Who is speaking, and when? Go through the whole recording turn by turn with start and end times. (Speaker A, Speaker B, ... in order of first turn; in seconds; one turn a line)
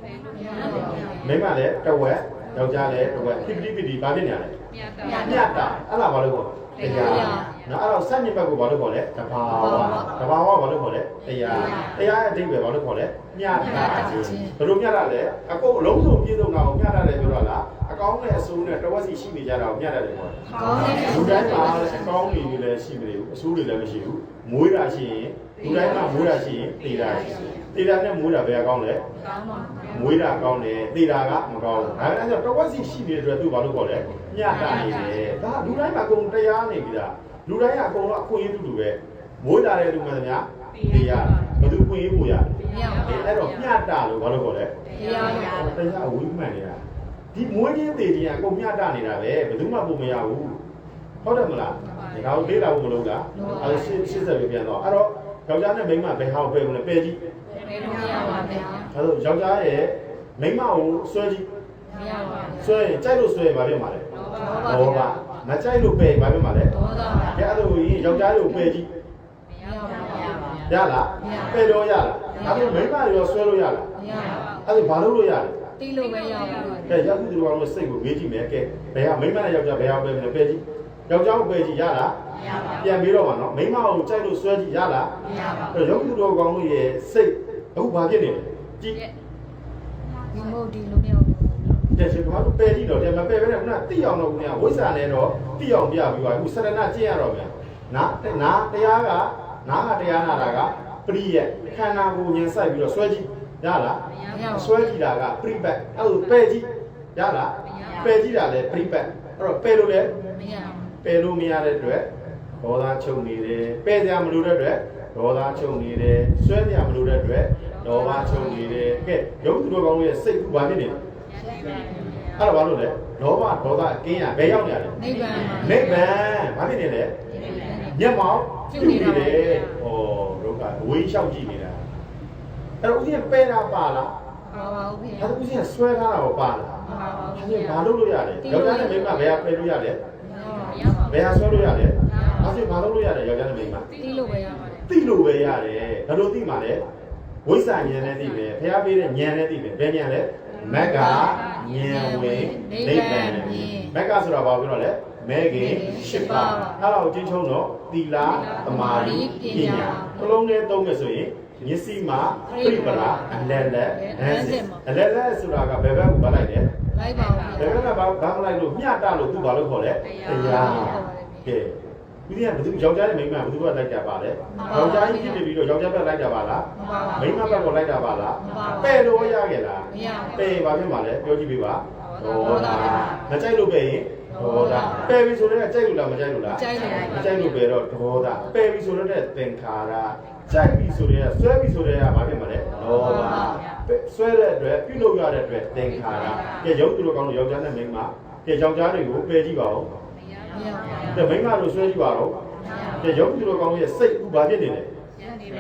Speaker A: 0.3-1.1
Speaker B: 1.0-4.6
Speaker B: 5.1-29.0
Speaker A: 6.8-7.5
Speaker A: 9.6-10.0
Speaker A: 14.1-14.5
Speaker A: 20.5-21.7
Speaker A: 29.3-29.9
Speaker B: 29.9-46.8
Speaker A: 42.7-43.1
Speaker A: 45.0-45.6
Speaker B: 47.3-50.6
Speaker B: 51.2-57.2
Speaker A: 53.4-53.7
Speaker A: 57.6-58.9
Speaker B: 58.9-61.5
Speaker A: 61.9-62.6
Speaker B: 62.6-66.8
Speaker A: 64.3-65.0
Speaker A: 66.8-67.4
Speaker B: 67.3-68.9
Speaker A: 69.6-70.6
Speaker B: 70.7-73.9
Speaker A: 71.2-71.5
Speaker A: 74.0-74.4
Speaker B: 74.7-75.7
Speaker A: 75.8-76.9
Speaker B: 76.9-85.2
Speaker B: 85.7-89.0
Speaker A: 90.3-91.7
Speaker B: 91.9-110.2
Speaker A: 104.3-104.7
Speaker A: 110.4-110.8
Speaker B: 111.0-112.1
Speaker B: 112.6-121.0
Speaker B: 122.4-127.2
Speaker A: 125.0-125.8
Speaker A: 127.5-127.9
Speaker B: 127.9-131.8
Speaker A: 128.7-129.3
Speaker B: 132.8-134.2
Speaker A: 134.5-135.3
Speaker B: 135.2-140.0
Speaker A: 136.9-137.4
Speaker A: 138.5-138.9
Speaker A: 140.2-141.1
Speaker B: 141.0-143.9
Speaker A: 143.9-144.8
Speaker B: 144.9-146.8
Speaker B: 147.4-166.7
Speaker A: 150.8-151.3
Speaker A: 151.9-153.9
Speaker A: 155.6-156.8
Speaker A: 158.7-160.2
Speaker A: 162.5-163.1
Speaker A: 164.0-164.8
Speaker A: 166.9-167.6
Speaker B: 167.5-199.9
Speaker A: 170.4-171.4
Speaker A: 174.6-175.3
Speaker A: 176.8-177.3
Speaker A: 178.4-179.0
Speaker A: 179.9-180.4
Speaker A: 182.4-183.1
Speaker A: 184.4-185.1
Speaker A: 186.5-187.2
Speaker A: 193.0-193.6
Speaker A: 200.5-201.0
Speaker B: 201.1-202.4
Speaker B: 203.0-204.9